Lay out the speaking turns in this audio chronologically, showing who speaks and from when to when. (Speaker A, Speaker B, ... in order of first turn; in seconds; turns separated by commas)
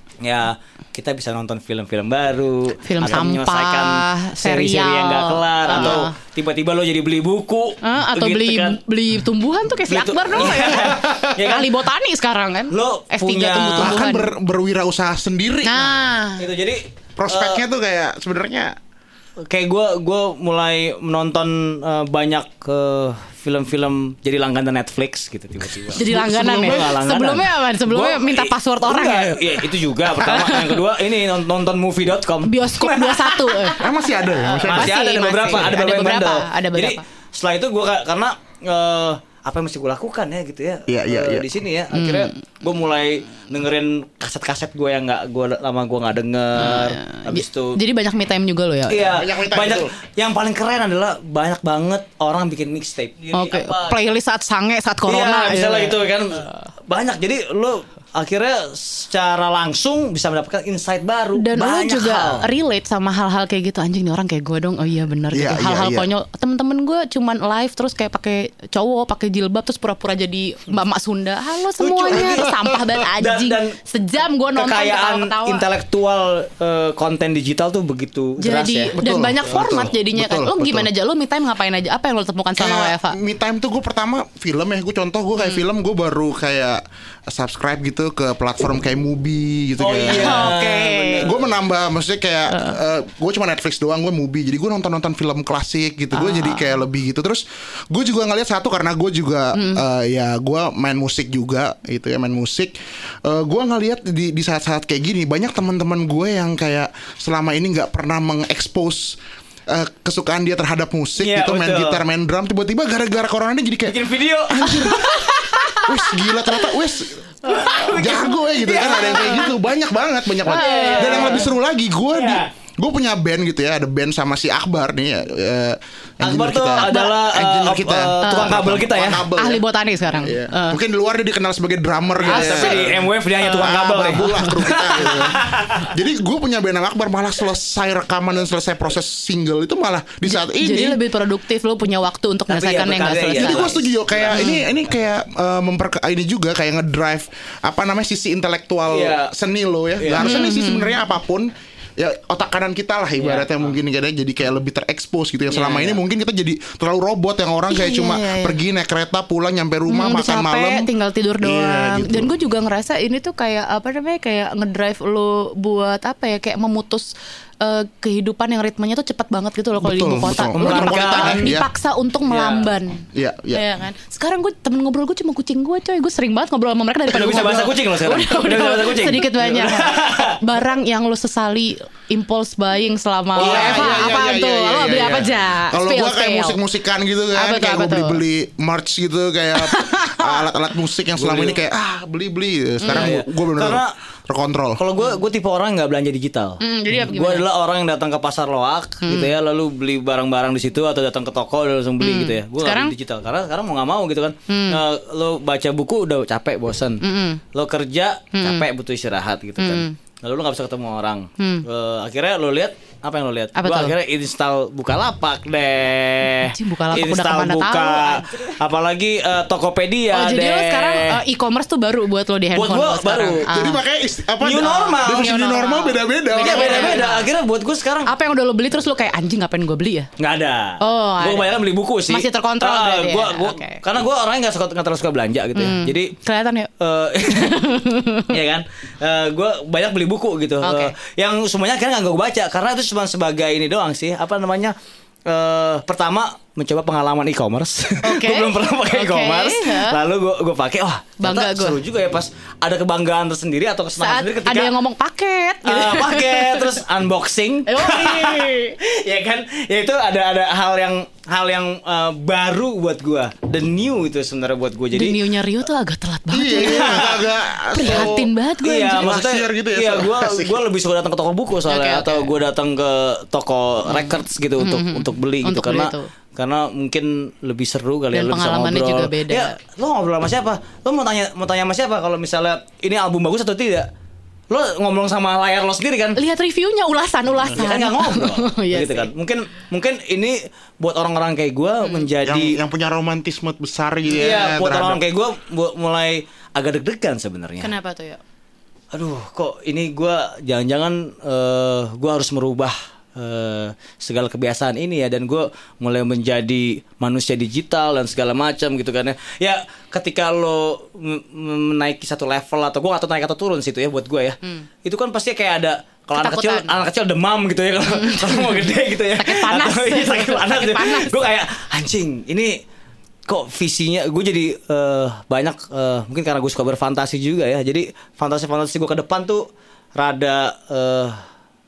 Speaker A: 0.2-8.8, Speaker B: 2.8-6.1, Speaker B: 7.8-14.3, Speaker A: 9.9-11.8, Speaker A: 12.7-14.0, Speaker C: 13.8-16.0, Speaker B: 15.7-16.4, Speaker A: 16.4-17.6, Speaker C: 17.2-18.8, Speaker A: 19.5-33.8, Speaker B: 25.9-30.8, Speaker B: 32.5-33.8, Speaker C: 33.8-34.9, Speaker A: 34.6-47.8, Speaker B: 34.7-37.0, Speaker C: 40.9-41.5, Speaker B: 42.0-42.3, Speaker B: 46.6-49.1, Speaker A: 48.9-54.0, Speaker C: 49.1-49.9, Speaker B: 53.3-56.5, Speaker A: 55.1-62.5, Speaker B: 61.4-75.7, Speaker C: 65.3-66.1, Speaker A: 71.8-72.5, Speaker A: 73.2-73.8, Speaker A: 74.5-78.9, Speaker B: 78.4-83.2, Speaker C: 79.0-80.9, Speaker C: 82.6-90.5, Speaker A: 89.8-91.4, Speaker B: 90.1-91.3, Speaker C: 91.2-109.2, Speaker B: 92.5-92.8, Speaker B: 96.1-96.8, Speaker B: 99.5-99.8, Speaker C: 109.7-114.0, Speaker A: 111.2-112.0, Speaker A: 113.9-115.8, Speaker C: 114.5-115.1, Speaker B: 115.0-116.1, Speaker C: 115.8-129.6, Speaker A: 117.4-119.5, Speaker B: 118.8-119.5, Speaker A: 120.5-121.5, Speaker B: 120.5-121.5, Speaker A: 122.1-122.5, Speaker A: 126.2-129.2, Speaker B: 126.8-127.2, Speaker B: 128.2-128.6, Speaker B: 129.4-130.8, Speaker C: 130.2-133.0, Speaker A: 132.2-135.9, Speaker B: 132.3-134.5, Speaker C: 133.6-141.0, Speaker B: 140.3-144.6, Speaker A: 142.5-144.4, Speaker C: 143.3-160.9, Speaker A: 148.9-149.3, Speaker A: 150.0-150.4, Speaker B: 150.2-150.9, Speaker A: 153.2-153.7, Speaker A: 155.5-156.0, Speaker B: 157.7-158.6, Speaker B: 159.9-186.6, Speaker C: 161.4-162.3, Speaker C: 169.8-171.6, Speaker A: 170.6-171.6, Speaker A: 172.3-172.7, Speaker C: 173.1-173.6, Speaker A: 177.1-180.3, Speaker C: 183.4-194.8, Speaker A: 183.4-184.2, Speaker B: 187.3-188.2, Speaker B: 189.6-190.4, Speaker A: 191.2-191.6, Speaker B: 192.8-193.1, Speaker A: 192.9-193.9, Speaker A: 194.8-207.0, Speaker B: 196.6-197.4, Speaker B: 199.0-199.3, Speaker B: 202.0-202.9, Speaker B: 204.5-204.8, Speaker B: 207.0-207.4, Speaker A: 207.5-221.2, Speaker B: 208.3-208.6, Speaker B: 209.6-209.9, Speaker B: 211.4-211.7, Speaker B: 213.6-213.9, Speaker B: 216.3-218.5, Speaker B: 220.1-223.8, Speaker A: 222.5-223.5, Speaker C: 223.5-227.0, Speaker A: 224.4-225.6, Speaker B: 224.5-227.3, Speaker A: 226.4-228.1, Speaker B: 228.1-230.1, Speaker A: 230.2-236.1, Speaker B: 230.8-231.6, Speaker B: 232.1-233.8, Speaker B: 235.6-236.7, Speaker A: 236.8-237.7, Speaker B: 237.3-238.3, Speaker A: 238.3-244.7, Speaker B: 240.6-240.9, Speaker A: 245.3-254.7, Speaker B: 248.0-250.0, Speaker B: 251.2-251.8, Speaker B: 254.0-256.8, Speaker A: 255.7-265.2, Speaker B: 257.7-258.8, Speaker B: 264.9-267.0, Speaker C: 266.3-268.3, Speaker A: 266.6-267.2, Speaker B: 267.7-269.1, Speaker A: 267.8-283.9, Speaker C: 269.0-270.6, Speaker B: 271.7-272.3, Speaker B: 273.9-276.1, Speaker B: 278.1-279.5, Speaker A: 284.5-286.2, Speaker B: 286.2-289.1, Speaker A: 287.6-292.6, Speaker C: 292.2-295.0, Speaker A: 294.1-297.7, Speaker B: 297.6-298.2, Speaker A: 298.9-322.5, Speaker B: 316.2-316.7, Speaker B: 317.9-321.2, Speaker A: 323.3-331.2